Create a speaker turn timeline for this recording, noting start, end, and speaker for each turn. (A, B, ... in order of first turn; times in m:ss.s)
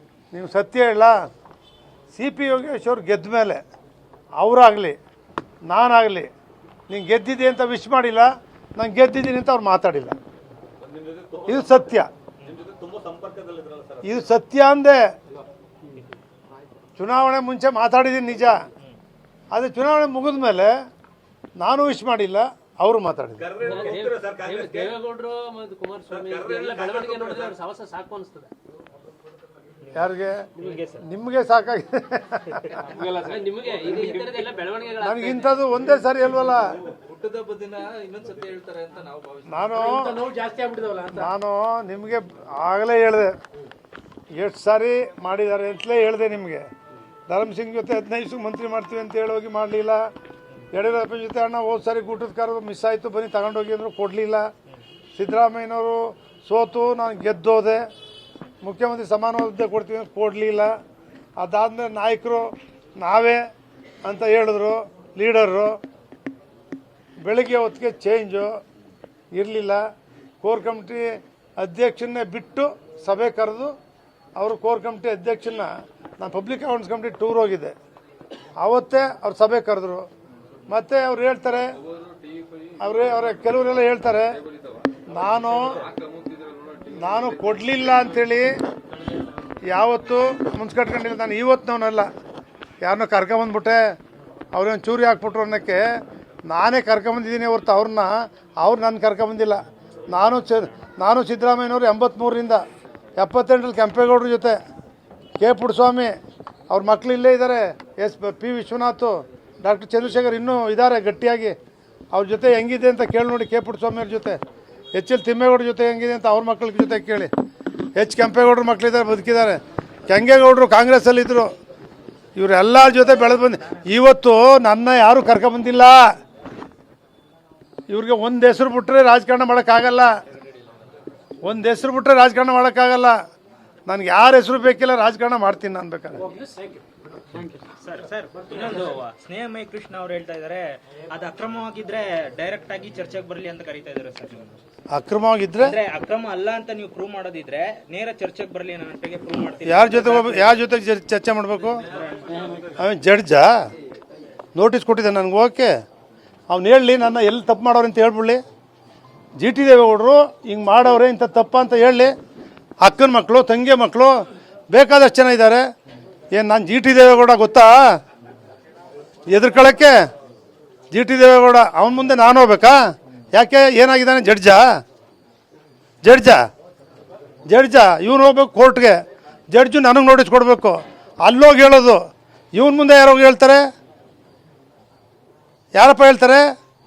0:00.3-0:01.2 A
0:02.1-0:03.6 A
0:04.4-0:05.0 A
0:05.7-0:06.3 A
0:06.9-0:10.2 A
0:10.8-0:14.3 B
0:11.5-0:12.1 A
0:14.0-0:15.0 A
0:15.4-0:16.1 C
0:17.0-0:18.6 A
0:19.5-0:20.7 A
0:21.6-0:23.4 A
0:23.4-0:25.0 B
0:23.6-0:28.5 C
0:26.1-0:27.6 B
0:29.9-0:30.5 A
0:30.6-0:31.0 D
0:30.6-0:30.8 C
0:31.0-0:32.8 A
0:32.8-0:35.7 C
0:33.7-0:34.2 B
0:35.0-0:36.7 A
0:36.8-0:39.6 B
0:39.4-0:40.2 A
0:39.6-0:41.3 C
0:41.1-0:43.3 A
0:44.3-0:46.6 A
0:47.3-0:50.1 A
0:50.7-0:54.5 A
0:55.2-0:57.8 A
0:58.6-1:00.7 A
1:01.4-1:03.4 A
1:04.0-1:05.8 A
1:07.2-1:08.5 A
1:09.3-1:09.8 A
1:10.4-1:13.7 A
1:14.4-1:17.7 A
1:18.6-1:20.1 A
1:20.7-1:21.7 A
1:22.8-1:24.4 A
1:24.5-1:24.8 B
1:25.0-1:25.8 A
1:26.9-1:28.6 A
1:29.7-1:32.1 A
1:32.8-1:33.9 A
1:34.5-1:35.8 A
1:36.5-1:42.6 A
1:43.2-1:44.6 A
1:45.4-1:46.2 A
1:46.7-1:51.6 A
1:52.1-1:54.4 A
1:54.9-1:57.3 A
1:58.0-2:01.5 A
2:02.4-2:06.1 A
2:03.0-2:03.9 D
2:07.9-2:10.1 A
2:11.4-2:13.2 A
2:13.9-2:16.2 A
2:16.2-2:17.7 C
2:17.8-2:24.6 D
2:18.5-2:18.9 C
2:24.9-2:25.8 A
2:25.6-2:30.6 D
2:29.6-2:31.8 A
2:31.9-2:32.6 D
2:32.3-2:32.6 B
2:32.7-2:33.6 A
2:34.5-2:35.7 A
2:36.5-2:38.4 A
2:39.4-2:42.1 A
2:42.8-2:45.6 A
2:46.3-2:48.0 A
2:49.3-2:50.0 A
2:50.9-2:52.8 A
2:53.3-2:54.8 A
2:56.0-2:56.4 A
2:57.5-2:59.0 A
2:59.5-3:02.0 A
3:02.5-3:03.7 A
3:05.7-3:06.5 A